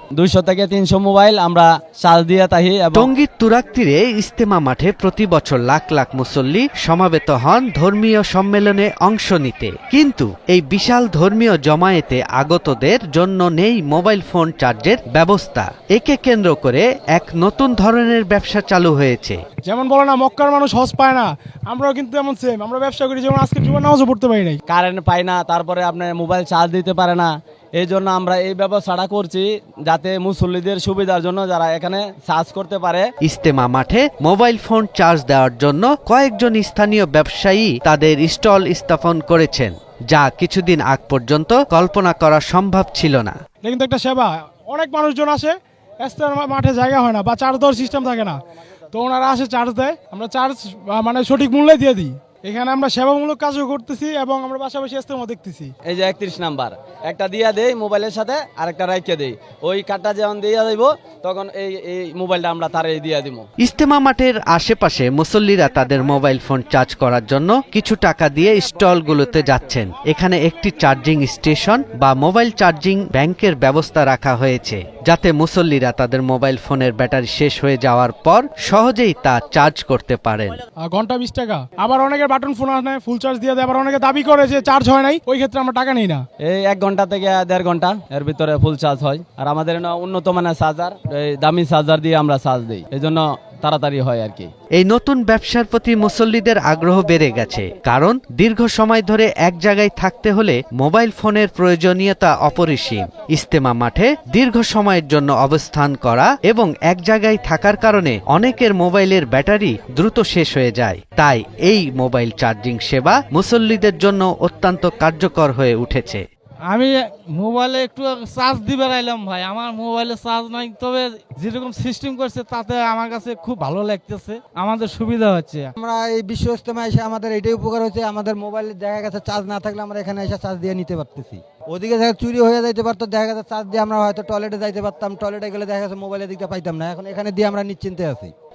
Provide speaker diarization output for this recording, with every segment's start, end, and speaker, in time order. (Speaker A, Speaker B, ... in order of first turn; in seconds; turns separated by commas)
Speaker A: 0.2-3.1, Speaker B: 2.9-19.4, Speaker C: 19.6-24.6, Speaker A: 24.7-33.1, Speaker B: 33.2-43.4, Speaker C: 43.6-48.4, Speaker C: 48.9-55.7, Speaker A: 55.9-63.5, Speaker B: 63.6-80.5, Speaker C: 80.9-86.2, Speaker A: 86.5-94.5, Speaker B: 94.8-116.2, Speaker D: 116.7-125.7, Speaker E: 125.8-138.3